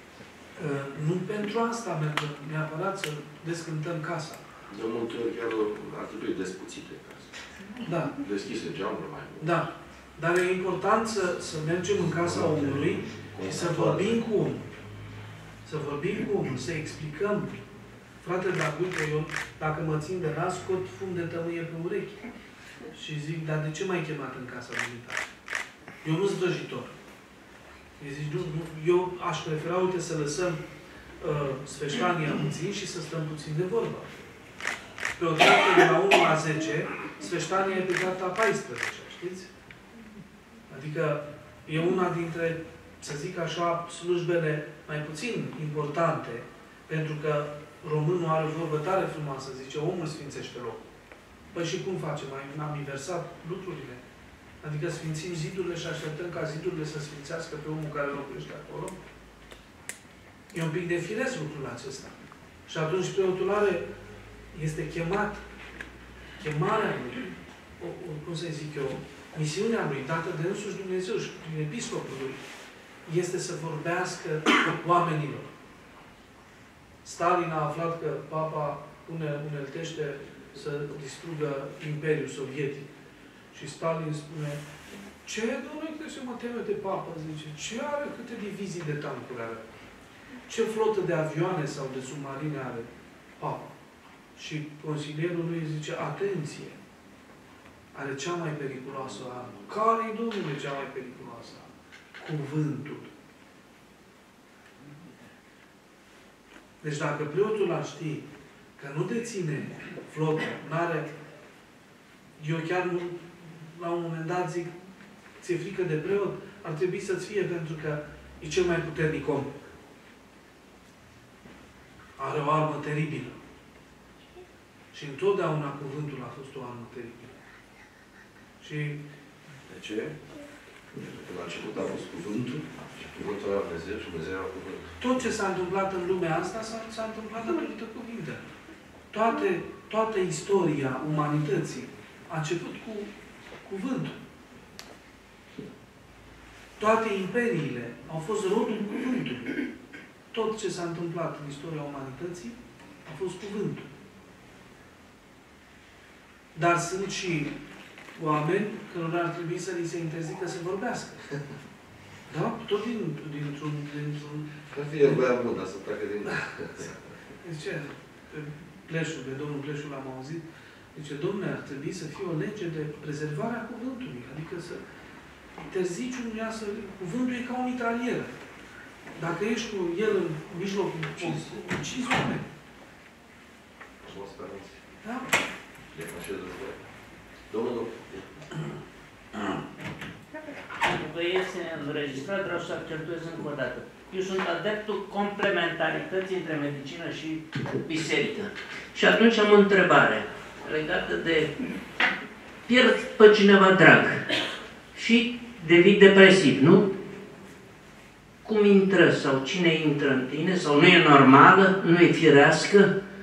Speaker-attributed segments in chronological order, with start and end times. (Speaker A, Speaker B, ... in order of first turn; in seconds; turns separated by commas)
Speaker A: 0.6-4.4, Speaker B: 4.7-7.3, Speaker A: 7.8-8.2, Speaker B: 8.1-9.7, Speaker A: 9.4-14.7, Speaker B: 12.2-14.4, Speaker A: 15.6-17.6, Speaker A: 18.2-22.2, Speaker A: 22.9-25.3, Speaker A: 26.0-26.9, Speaker A: 28.0-30.6, Speaker A: 31.2-34.2, Speaker A: 35.2-39.5, Speaker A: 40.7-50.9, Speaker A: 51.5-54.0, Speaker A: 54.6-59.0, Speaker A: 60.5-62.1, Speaker A: 62.7-63.8, Speaker A: 64.5-65.4, Speaker A: 66.4-72.4, Speaker A: 73.0-75.5, Speaker A: 77.0-82.9, Speaker A: 83.5-84.6, Speaker A: 85.2-89.7, Speaker A: 90.5-93.7, Speaker A: 94.3-96.8, Speaker A: 97.9-103.1, Speaker A: 106.8-111.1, Speaker A: 112.4-114.7, Speaker A: 115.4-119.5, Speaker A: 122.2-123.4, Speaker A: 124.9-127.4, Speaker A: 128.6-129.0, Speaker B: 129.7-130.1, Speaker B: 130.9-134.9, Speaker A: 135.0-138.4, Speaker A: 139.1-143.1, Speaker A: 143.6-144.2, Speaker A: 146.8-149.6, Speaker A: 150.3-153.9, Speaker A: 156.5-157.6, Speaker A: 158.2-161.3, Speaker A: 162.3-165.2, Speaker B: 164.7-166.9, Speaker A: 166.3-174.8, Speaker A: 175.6-178.3, Speaker A: 179.1-182.5, Speaker B: 181.1-181.8, Speaker B: 184.0-184.8, Speaker A: 185.0-185.3, Speaker B: 185.9-186.8, Speaker B: 187.5-188.6, Speaker C: 190.8-201.5, Speaker C: 202.7-204.3, Speaker C: 204.9-206.9, Speaker C: 208.4-212.9